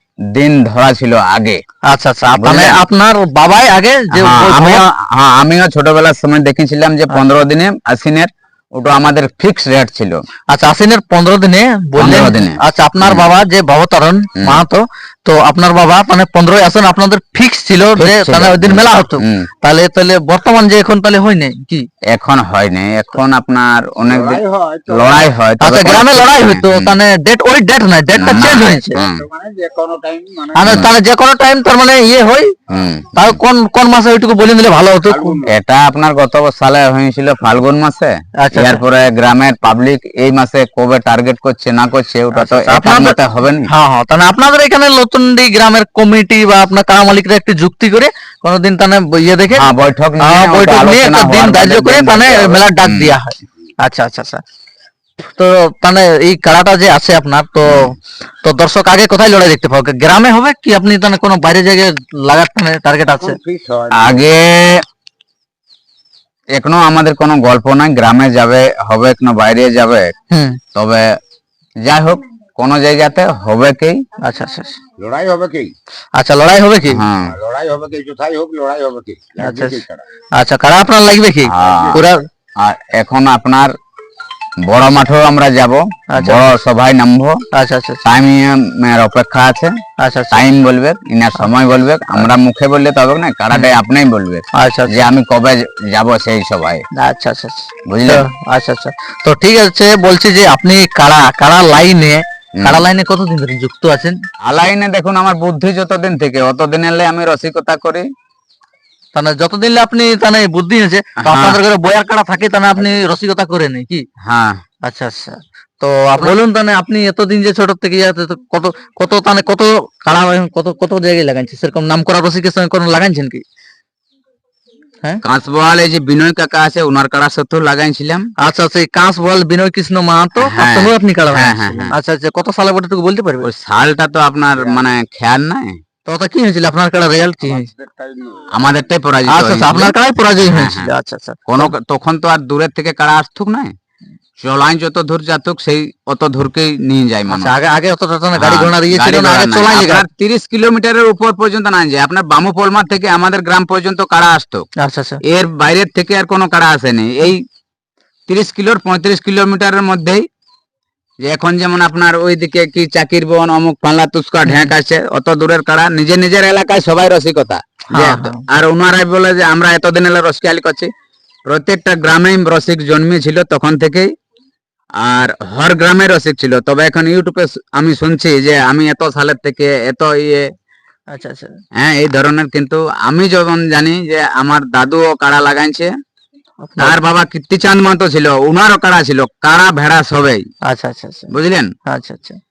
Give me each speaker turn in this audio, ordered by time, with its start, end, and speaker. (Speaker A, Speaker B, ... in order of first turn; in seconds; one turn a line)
Speaker A: 0.3-1.6
Speaker B: 1.9-4.8
Speaker A: 2.3-2.8
Speaker A: 4.1-10.2
Speaker B: 10.5-21.9
Speaker A: 12.0-13.3
Speaker A: 14.4-14.6
Speaker A: 17.9-19.5
Speaker A: 22.1-26.9
Speaker C: 24.1-25.3
Speaker B: 25.6-29.0
Speaker A: 28.1-29.2
Speaker C: 28.9-30.9
Speaker B: 30.5-32.5
Speaker A: 30.6-30.9
Speaker A: 32.7-33.4
Speaker B: 33.1-35.4
Speaker C: 35.1-35.5
Speaker A: 35.5-43.7
Speaker B: 38.4-38.8
Speaker B: 42.3-43.2
Speaker B: 43.7-49.7
Speaker A: 49.5-53.1
Speaker B: 50.2-54.4
Speaker B: 55.2-63.4
Speaker A: 57.6-57.9
Speaker C: 63.2-64.2
Speaker A: 63.9-64.8
Speaker A: 66.5-70.1
Speaker B: 70.3-70.6
Speaker A: 70.7-71.0
Speaker A: 71.8-74.0
Speaker B: 74.2-74.8
Speaker C: 75.0-75.7
Speaker B: 76.2-77.0
Speaker A: 76.9-77.3
Speaker C: 77.3-80.0
Speaker B: 79.4-79.8
Speaker B: 80.4-82.2
Speaker A: 81.5-82.0
Speaker C: 81.6-82.0
Speaker A: 82.6-83.7
Speaker A: 84.6-87.4
Speaker B: 86.1-86.5
Speaker B: 87.5-88.0
Speaker A: 88.0-89.7
Speaker B: 90.0-90.5
Speaker A: 90.3-96.8
Speaker B: 94.6-95.1
Speaker B: 97.0-104.2
Speaker A: 97.9-98.2
Speaker A: 102.6-102.8
Speaker A: 104.4-108.0
Speaker B: 109.1-114.0
Speaker A: 111.2-111.6
Speaker A: 114.2-114.5
Speaker B: 114.8-123.4
Speaker A: 125.2-128.3
Speaker B: 128.4-133.5
Speaker A: 130.4-131.9
Speaker A: 133.4-135.8
Speaker C: 134.6-134.9
Speaker B: 136.1-137.7
Speaker C: 137.4-138.5
Speaker A: 138.5-139.9
Speaker B: 139.3-141.7
Speaker A: 140.5-140.9
Speaker A: 141.5-143.7
Speaker A: 144.4-147.5
Speaker B: 147.3-150.0
Speaker A: 148.4-154.7
Speaker B: 154.8-155.2
Speaker A: 155.2-157.4
Speaker A: 158.3-160.2
Speaker A: 161.2-170.9
Speaker B: 167.9-168.4
Speaker A: 171.5-174.1
Speaker A: 175.0-180.4
Speaker B: 181.1-181.5
Speaker A: 181.8-185.9
Speaker B: 186.6-187.0
Speaker A: 186.8-190.4
Speaker B: 190.7-191.3
Speaker A: 191.3-191.7
Speaker B: 191.9-192.4